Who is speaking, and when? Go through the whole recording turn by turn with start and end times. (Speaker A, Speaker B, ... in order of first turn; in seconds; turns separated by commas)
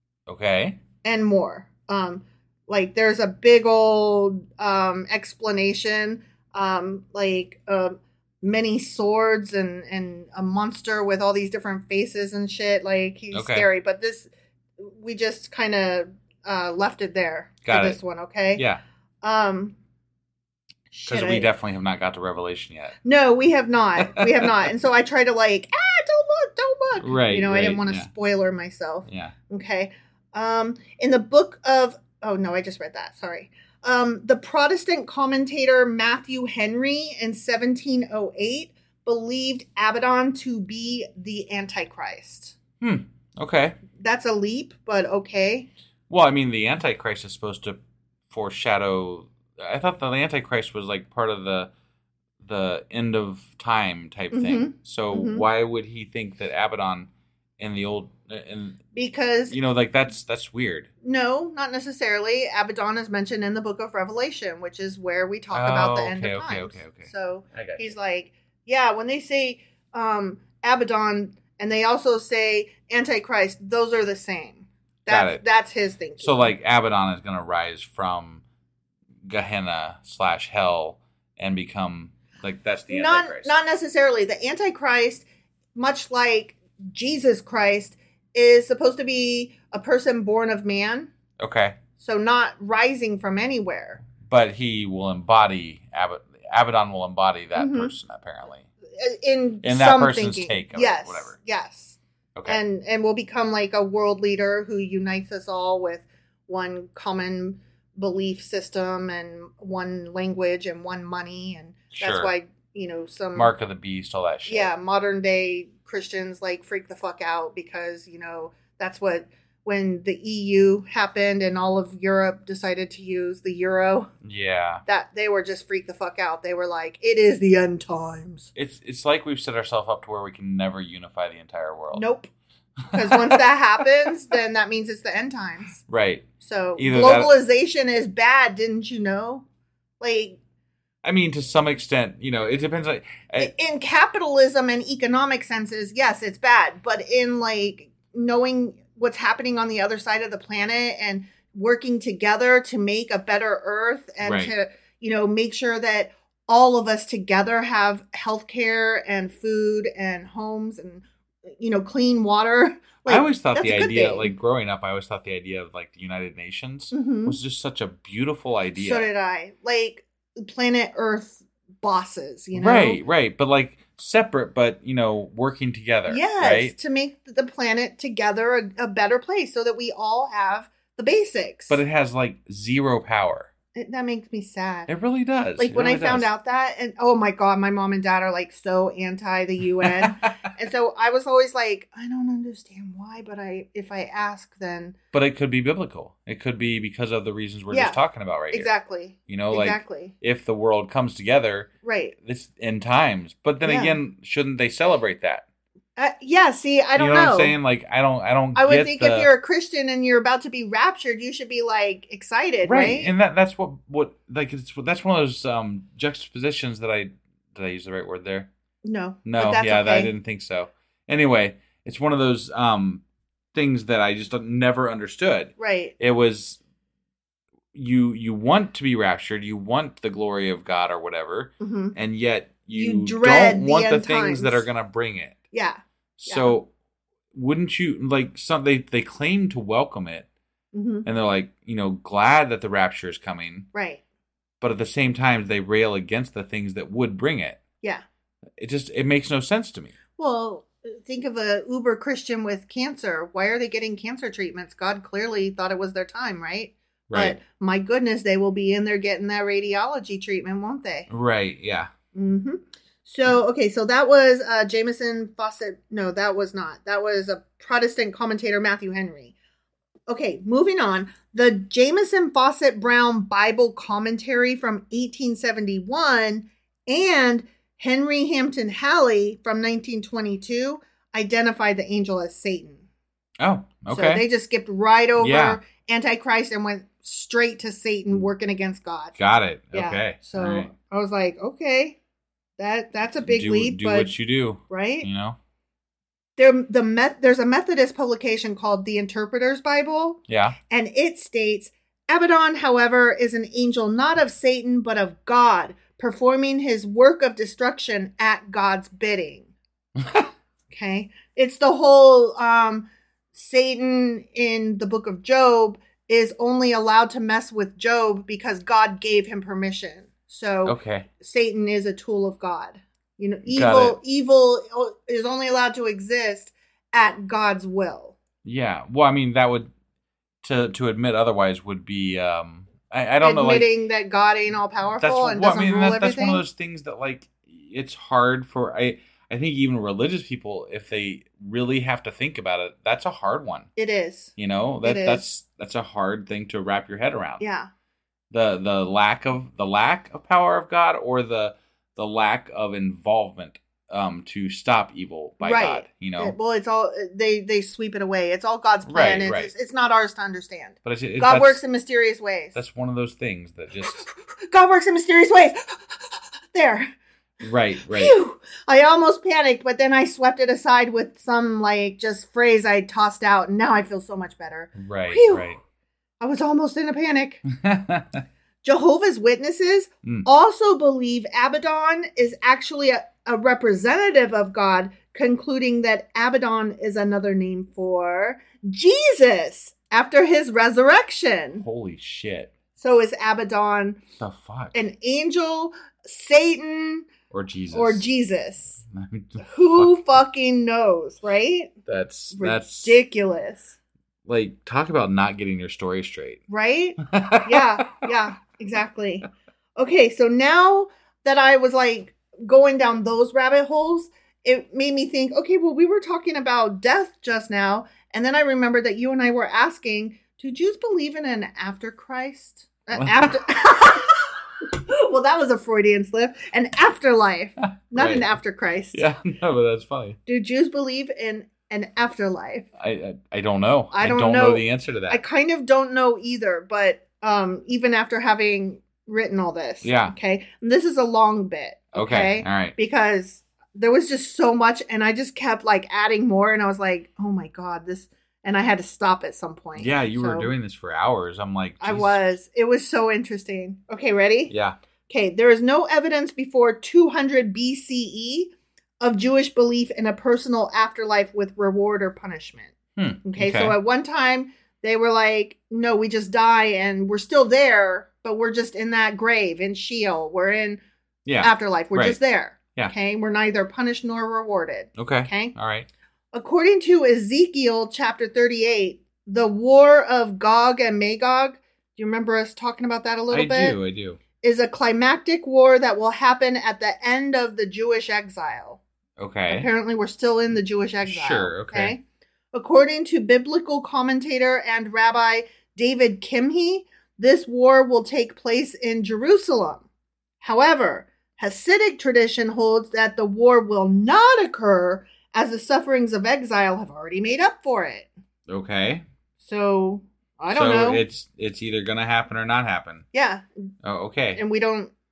Speaker A: 0.3-0.8, Speaker B: 1.0-18.6, Speaker A: 13.3-13.7, Speaker A: 17.6-18.0, Speaker A: 18.6-18.8, Speaker B: 19.2-19.7, Speaker B: 20.9-21.5, Speaker A: 21.1-22.9, Speaker B: 23.0-42.5, Speaker A: 24.1-24.5, Speaker A: 27.0-28.1, Speaker A: 29.1-29.3, Speaker A: 42.8-43.8, Speaker B: 43.9-45.7, Speaker A: 46.1-47.8, Speaker A: 48.3-51.7, Speaker A: 52.4-58.8, Speaker B: 54.3-55.5, Speaker B: 58.9-59.6, Speaker A: 59.5-60.9, Speaker B: 61.0-76.5, Speaker A: 65.5-67.9, Speaker A: 75.1-75.4, Speaker A: 76.2-78.4, Speaker A: 79.3-83.5, Speaker B: 82.9-91.1, Speaker A: 91.4-91.8, Speaker B: 92.0-94.0, Speaker A: 94.2-98.7, Speaker B: 97.5-97.9, Speaker B: 99.0-113.5, Speaker A: 99.6-101.3, Speaker A: 111.9-112.3, Speaker A: 113.3-114.7, Speaker B: 114.5-124.1, Speaker A: 124.2-124.8, Speaker B: 124.8-128.5, Speaker A: 128.5-132.1, Speaker B: 131.9-132.3, Speaker A: 132.9-133.4, Speaker B: 132.9-135.8, Speaker A: 135.9-137.3, Speaker B: 136.4-139.4, Speaker B: 140.0-140.4, Speaker A: 141.0-143.5, Speaker B: 143.4-164.3, Speaker A: 154.2-154.5, Speaker A: 163.1-169.1, Speaker B: 166.9-167.4, Speaker B: 168.8-173.0, Speaker A: 172.5-176.7, Speaker B: 176.1-181.8, Speaker A: 181.7-183.5, Speaker B: 183.7-184.9, Speaker A: 184.9-186.3, Speaker B: 185.6-194.9, Speaker A: 189.8-190.5, Speaker A: 195.1-198.7, Speaker B: 197.7-198.0, Speaker B: 198.5-200.1, Speaker A: 199.3-201.7, Speaker B: 201.8-202.1, Speaker A: 202.2-205.4, Speaker B: 203.6-204.0, Speaker B: 205.9-207.5, Speaker A: 207.0-209.3, Speaker B: 208.5-213.1, Speaker A: 212.6-218.5, Speaker B: 218.8-220.1, Speaker A: 219.2-223.0, Speaker A: 223.5-226.6, Speaker B: 225.6-225.9, Speaker A: 227.7-235.4, Speaker B: 231.6-231.9, Speaker B: 232.7-234.7, Speaker B: 235.5-236.6, Speaker A: 236.2-236.7, Speaker A: 237.3-240.3, Speaker B: 240.7-241.1, Speaker A: 241.0-243.7, Speaker B: 243.7-244.0, Speaker A: 244.6-247.6, Speaker A: 248.6-249.9, Speaker B: 250.2-261.1, Speaker A: 257.1-257.4, Speaker A: 261.1-261.9, Speaker B: 262.1-269.3, Speaker B: 270.1-282.8, Speaker A: 283.4-284.2, Speaker B: 283.9-289.1, Speaker A: 285.2-285.6, Speaker A: 289.2-290.7, Speaker B: 289.7-292.0, Speaker B: 292.6-294.1, Speaker A: 293.2-295.4, Speaker B: 294.7-295.1, Speaker B: 296.4-309.5, Speaker A: 300.3-300.6, Speaker A: 310.0-310.3, Speaker B: 310.7-328.1, Speaker A: 320.6-321.1, Speaker A: 323.5-324.0, Speaker A: 328.4-329.7, Speaker A: 330.4-333.7, Speaker B: 333.2-336.4, Speaker A: 335.0-343.7, Speaker B: 343.8-345.2, Speaker A: 344.4-347.4, Speaker B: 347.4-347.7, Speaker A: 348.3-356.4, Speaker B: 355.4-362.6, Speaker A: 358.9-359.5, Speaker A: 360.8-361.6, Speaker A: 362.5-364.0, Speaker B: 363.9-366.9, Speaker A: 367.4-368.1, Speaker B: 367.9-375.4, Speaker A: 374.8-375.6, Speaker B: 376.2-377.4, Speaker A: 377.5-378.2, Speaker B: 378.6-391.6, Speaker A: 391.6-392.5, Speaker B: 392.8-394.0, Speaker A: 394.2-394.8, Speaker B: 394.7-397.1, Speaker A: 397.3-398.1, Speaker B: 397.7-398.8, Speaker A: 398.9-400.1, Speaker B: 399.4-401.7, Speaker A: 401.9-403.0, Speaker B: 402.3-403.8, Speaker A: 404.2-406.4, Speaker B: 406.5-429.0, Speaker A: 407.0-408.0, Speaker A: 423.0-423.3, Speaker A: 427.6-428.3, Speaker A: 428.9-430.2, Speaker B: 430.3-432.7, Speaker A: 432.8-435.2, Speaker B: 433.9-450.5, Speaker A: 439.8-440.1, Speaker A: 441.9-442.8, Speaker A: 449.8-452.2, Speaker B: 451.8-454.5, Speaker A: 454.5-454.8, Speaker B: 455.1-470.8, Speaker A: 463.0-463.8, Speaker A: 471.2-472.2, Speaker B: 471.4-475.5, Speaker A: 475.0-475.9, Speaker B: 476.3-483.8, Speaker A: 483.3-484.2, Speaker B: 484.4-488.8, Speaker A: 489.2-489.7, Speaker B: 489.5-492.0, Speaker A: 491.0-491.9, Speaker B: 492.5-499.8, Speaker B: 500.4-508.1, Speaker A: 508.5-509.0, Speaker B: 509.4-511.0, Speaker A: 510.5-513.1, Speaker B: 513.1-513.7, Speaker A: 513.8-514.4, Speaker B: 514.4-514.9